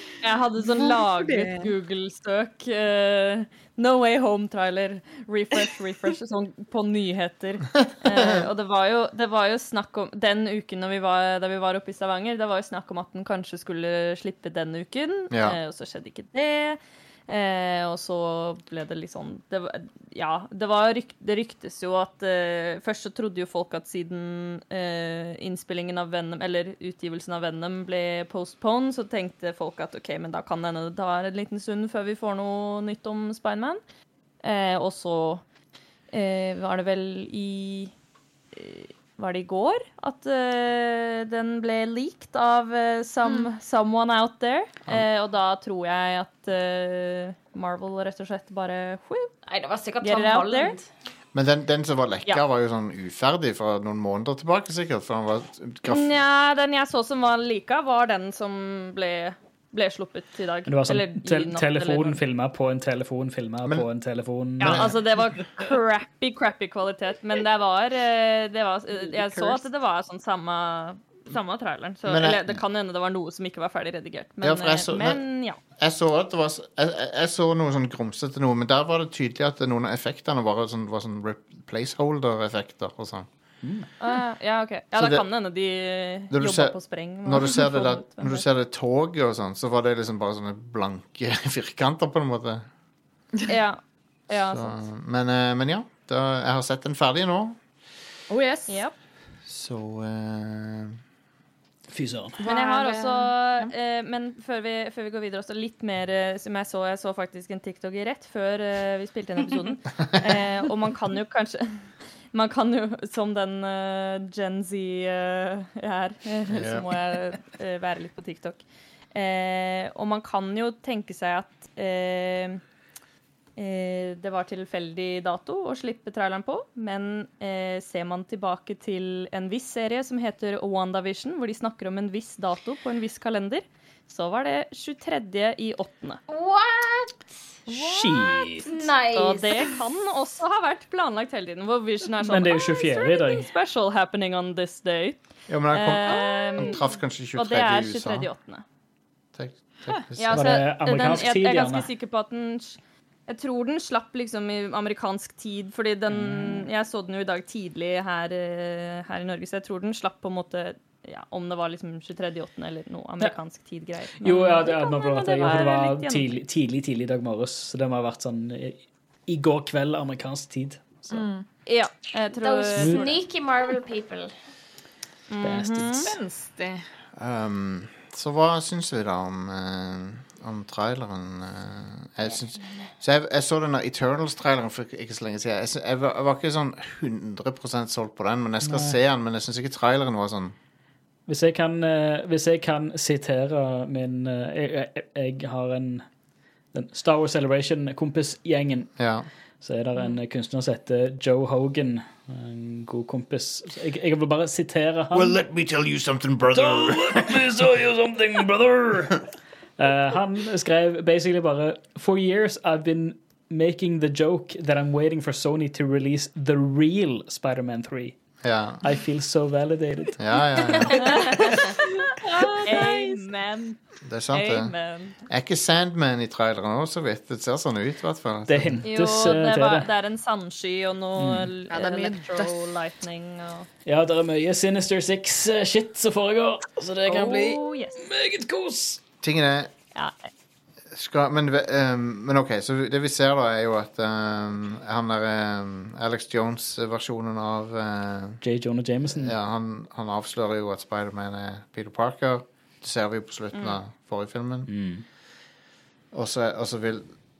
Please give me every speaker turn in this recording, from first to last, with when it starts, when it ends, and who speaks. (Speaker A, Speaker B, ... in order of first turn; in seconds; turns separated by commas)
Speaker A: 0.2-33.8, Speaker B: 0.8-1.7, Speaker C: 15.3-15.6, Speaker A: 34.4-35.4, Speaker A: 36.1-37.9, Speaker A: 38.5-49.3, Speaker D: 49.5-50.9, Speaker A: 50.0-50.8, Speaker C: 51.3-56.1, Speaker A: 55.9-62.2, Speaker E: 60.7-64.9, Speaker C: 64.6-64.9, Speaker A: 64.6-75.6, Speaker B: 69.0-69.6, Speaker C: 72.0-72.4, Speaker C: 74.4-75.2, Speaker C: 75.8-83.3, Speaker E: 83.6-83.9, Speaker A: 84.0-88.4, Speaker C: 84.9-85.2, Speaker C: 86.3-92.7, Speaker A: 93.5-94.7, Speaker C: 94.3-97.6, Speaker B: 98.3-98.8, Speaker A: 98.7-98.9, Speaker C: 99.4-101.0, Speaker E: 101.9-102.4, Speaker B: 102.4-103.7, Speaker A: 102.4-118.6, Speaker C: 116.5-116.9, Speaker A: 119.1-122.6, Speaker A: 123.5-136.2, Speaker D: 136.3-137.3, Speaker B: 137.7-138.4, Speaker E: 137.7-138.8, Speaker D: 138.7-139.8, Speaker A: 139.1-148.6, Speaker E: 142.2-143.5, Speaker C: 145.5-148.3, Speaker C: 149.3-150.6, Speaker A: 150.2-166.4, Speaker E: 150.3-151.9, Speaker E: 156.1-156.7, Speaker E: 164.2-171.2, Speaker B: 171.1-171.4, Speaker A: 171.6-173.2, Speaker D: 172.2-174.3, Speaker E: 172.8-173.1, Speaker A: 175.3-176.1, Speaker E: 175.4-176.1, Speaker B: 176.0-176.8, Speaker C: 177.2-190.5, Speaker E: 188.6-188.9, Speaker E: 191.3-196.1, Speaker E: 196.7-199.1, Speaker C: 199.0-199.3, Speaker E: 199.6-205.4, Speaker C: 205.1-207.5, Speaker E: 206.5-218.2, Speaker C: 218.4-218.8, Speaker E: 218.8-221.6, Speaker C: 220.2-221.2, Speaker A: 221.0-221.4, Speaker B: 222.1-223.2, Speaker A: 222.4-223.8, Speaker C: 224.0-224.7, Speaker A: 224.3-225.2, Speaker C: 225.2-228.8, Speaker E: 228.5-229.9, Speaker A: 228.8-233.7, Speaker E: 231.2-231.5, Speaker B: 231.7-232.7, Speaker E: 233.8-239.0, Speaker A: 237.1-238.1, Speaker C: 239.2-239.7, Speaker C: 240.9-248.4, Speaker E: 248.4-249.3, Speaker C: 249.1-254.8, Speaker E: 254.7-255.0, Speaker C: 256.1-257.2